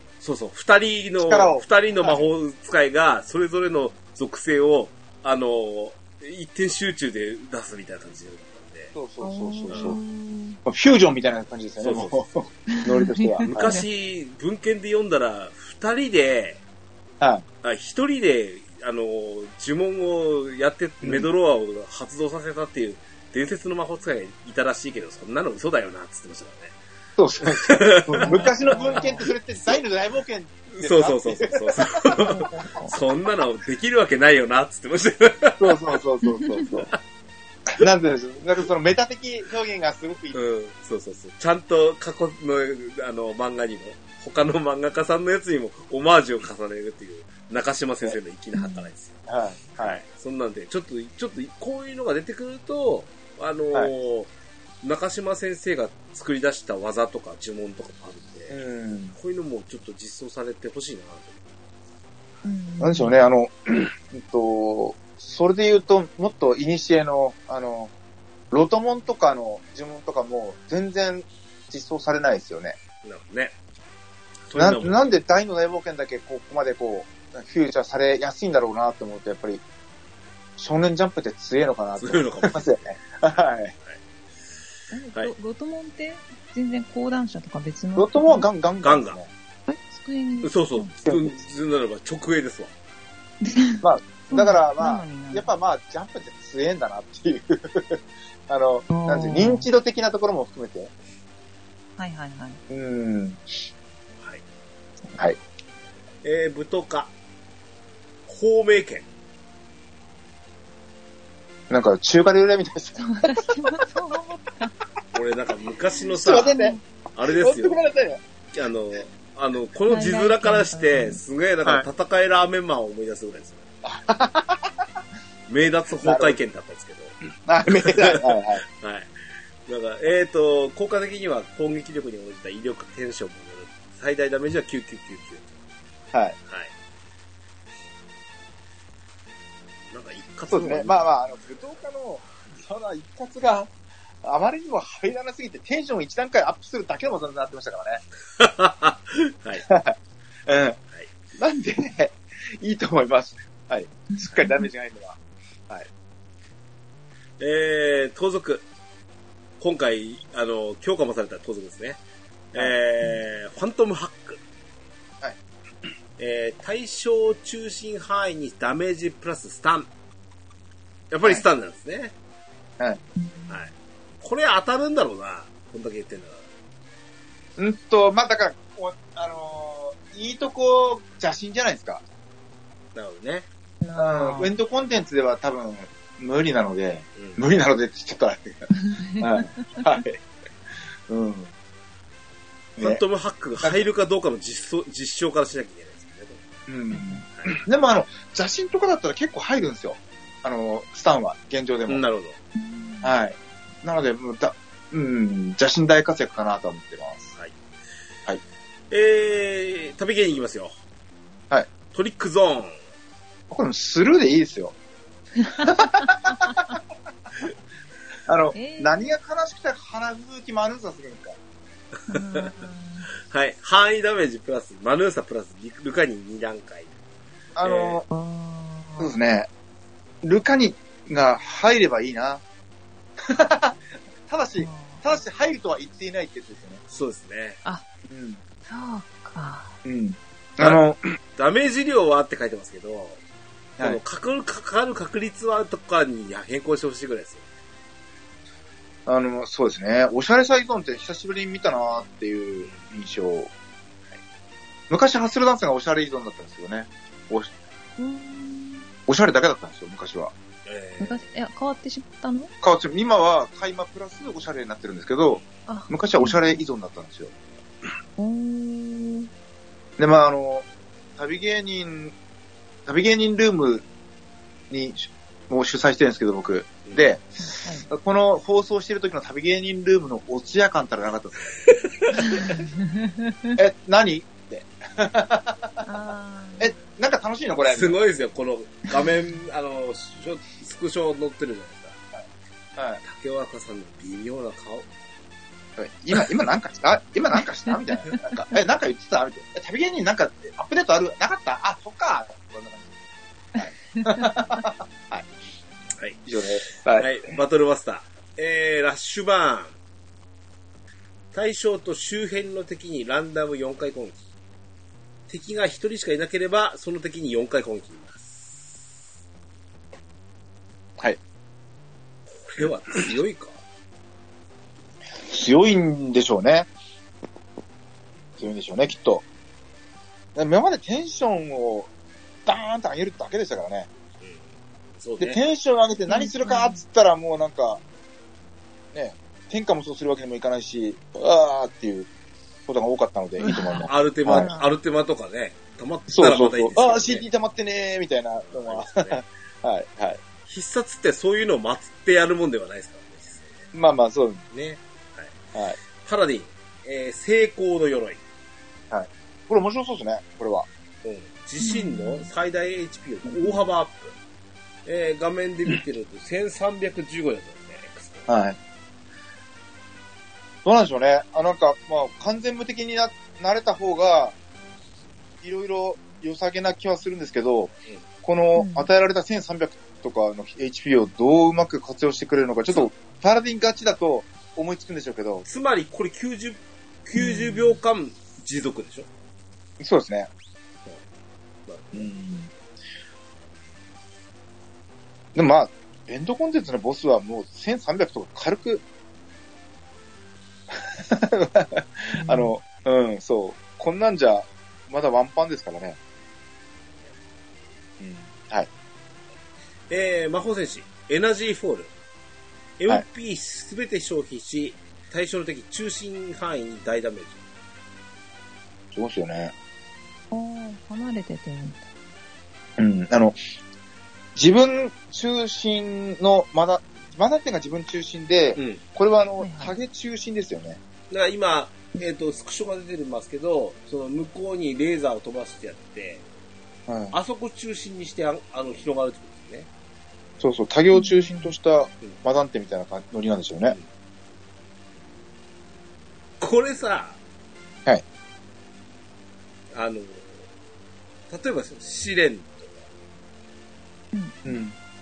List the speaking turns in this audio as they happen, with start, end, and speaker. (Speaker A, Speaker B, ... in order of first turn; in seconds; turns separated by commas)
Speaker A: 0.2-8.9, Speaker B: 1.2-2.2, Speaker B: 8.9-10.0, Speaker C: 9.2-10.6, Speaker A: 9.7-9.9, Speaker B: 10.6-13.8, Speaker A: 11.8-12.5, Speaker C: 12.7-13.8, Speaker A: 13.5-16.6, Speaker B: 17.2-17.4, Speaker A: 17.6-26.8, Speaker B: 21.0-21.3, Speaker B: 27.2-32.3, Speaker A: 27.4-29.2, Speaker C: 28.2-29.2, Speaker A: 30.7-35.9, Speaker C: 32.0-33.0, Speaker B: 35.6-36.9, Speaker C: 36.2-36.6, Speaker B: 37.8-40.4, Speaker A: 40.3-49.2, Speaker C: 48.5-48.9, Speaker B: 49.2-50.0, Speaker A: 49.8-54.3, Speaker A: 54.8-61.5, Speaker B: 58.5-59.1, Speaker C: 62.4-63.3, Speaker B: 62.8-67.9, Speaker B: 68.5-72.8, Speaker A: 73.0-73.5, Speaker A: 74.5-75.1, Speaker B: 74.5-79.6, Speaker B: 80.6-83.7, Speaker A: 82.0-83.0, Speaker C: 84.9-88.5, Speaker B: 88.0-89.3, Speaker A: 88.8-89.2, Speaker C: 89.7-90.9, Speaker A: 90.4-92.7, Speaker B: 91.0-91.4, Speaker C: 93.4-95.5, Speaker B: 93.8-100.9, Speaker C: 98.9-99.7, Speaker C: 102.0-102.6, Speaker B: 102.7-103.4, Speaker A: 106.2-107.1, Speaker A: 108.3-109.1, Speaker B: 111.7-113.5, Speaker C: 113.0-114.7, Speaker A: 115.1-116.6, Speaker B: 116.1-118.2, Speaker C: 116.3-116.8, Speaker A: 117.1-117.8, Speaker A: 118.5-123.6, Speaker C: 119.9-121.2, Speaker B: 123.8-124.7, Speaker A: 125.5-127.2, Speaker B: 126.0-126.4, Speaker B: 127.5-128.6, Speaker A: 127.8-129.1, Speaker A: 129.7-135.6, Speaker A: 136.4-136.7, Speaker A: 139.9-141.6, Speaker B: 140.5-148.0, Speaker A: 148.4-149.6, Speaker B: 149.6-150.8, Speaker B: 151.3-155.9, Speaker C: 154.1-154.7, Speaker A: 157.4-158.7, Speaker A: 159.6-162.0, Speaker A: 162.5-164.4, Speaker A: 166.2-169.9, Speaker A: 171.1-172.1, Speaker C: 173.2-173.6, Speaker A: 173.5-176.4, Speaker B: 177.6-182.0, Speaker A: 182.9-183.5, Speaker C: 183.8-184.5, Speaker B: 183.9-190.2, Speaker A: 187.2-187.4, Speaker C: 188.8-189.8, Speaker B: 191.1-191.5, Speaker B: 192.8-193.0, Speaker A: 192.8-196.4, Speaker B: 196.7-202.0, Speaker C: 196.9-197.2, Speaker A: 197.3-197.6, Speaker A: 201.9-202.4, Speaker C: 202.5-203.2, Speaker B: 203.0-207.3, Speaker A: 208.9-210.7, Speaker A: 211.9-212.8, Speaker B: 213.5-214.7, Speaker C: 215.4-215.8, Speaker B: 215.6-216.7, Speaker B: 218.2-221.4, Speaker C: 218.5-219.1, Speaker A: 222.1-222.5, Speaker C: 222.1-223.1, Speaker A: 223.3-226.9, Speaker B: 227.6-228.0, Speaker A: 227.6-228.0, Speaker C: 228.1-229.2, Speaker B: 229.0-229.5, Speaker B: 230.2-232.4, Speaker B: 233.2-236.8, Speaker C: 234.6-235.2, Speaker A: 236.9-237.6, Speaker B: 238.1-238.4, Speaker C: 238.7-239.8, Speaker B: 239.8-241.0, Speaker A: 241.3-243.2, Speaker A: 243.8-247.5, Speaker B: 249.1-253.5, Speaker A: 252.6-252.9, Speaker B: 254.9-257.5, Speaker C: 258.0-258.9, Speaker B: 259.1-260.3, Speaker A: 260.6-261.3, Speaker C: 261.0-262.5, Speaker B: 262.6-267.3, Speaker C: 265.7-266.6, Speaker C: 268.2-269.3, Speaker B: 270.0-270.6, Speaker B: 271.2-272.1, Speaker B: 272.9-273.8, Speaker B: 274.7-281.5, Speaker C: 277.4-277.9, Speaker A: 281.5-282.2, Speaker C: 282.3-283.6, Speaker B: 283.5-285.9, Speaker C: 285.8-286.7, Speaker B: 286.6-287.9, Speaker A: 287.7-292.0, Speaker A: 293.0-294.9, Speaker B: 295.8-302.9, Speaker B: 303.5-305.3, Speaker A: 306.0-306.2, Speaker B: 306.2-307.1, Speaker A: 306.9-309.8, Speaker A: 311.3-314.2, Speaker A: 315.3-318.7, Speaker A: 322.3-323.6, Speaker B: 325.2-326.7, Speaker B: 328.4-329.2, Speaker B: 330.3-331.9, Speaker B: 332.4-333.9, Speaker A: 334.2-335.4, Speaker B: 335.2-337.8, Speaker C: 336.1-336.8, Speaker B: 338.9-342.1, Speaker B: 342.7-344.5, Speaker C: 343.4-344.7, Speaker A: 343.8-347.2, Speaker B: 346.1-350.2, Speaker A: 348.4-349.2, Speaker A: 350.4-353.7, Speaker B: 353.7-354.4, Speaker A: 354.5-355.4, Speaker A: 356.0-358.2, Speaker B: 358.9-360.7, Speaker A: 361.0-364.1, Speaker C: 361.6-362.3, Speaker A: 364.8-368.3, Speaker B: 368.3-368.6, Speaker B: 370.6-374.3, Speaker B: 375.4-385.4, Speaker C: 378.6-378.9, Speaker A: 385.4-389.1, Speaker C: 387.1-387.8, Speaker B: 389.8-390.3, Speaker A: 391.6-392.1, Speaker B: 391.9-392.5, Speaker B: 395.3-398.8, Speaker B: 400.7-406.0, Speaker C: 402.1-402.5, Speaker B: 408.0-408.7, Speaker A: 409.9-411.9, Speaker A: 412.8-417.4, Speaker B: 418.9-419.5, Speaker C: 420.3-421.9, Speaker B: 422.8-423.4, Speaker B: 424.3-430.8, Speaker A: 428.5-428.8, Speaker C: 429.4-429.7, Speaker A: 431.1-436.2, Speaker B: 436.9-437.2, Speaker A: 437.1-439.7, Speaker B: 440.4-443.8, Speaker C: 440.9-441.5, Speaker A: 446.4-447.2, Speaker A: 449.7-450.5, Speaker A: 451.3-452.9, Speaker C: 454.1-454.5, Speaker B: 454.4-454.7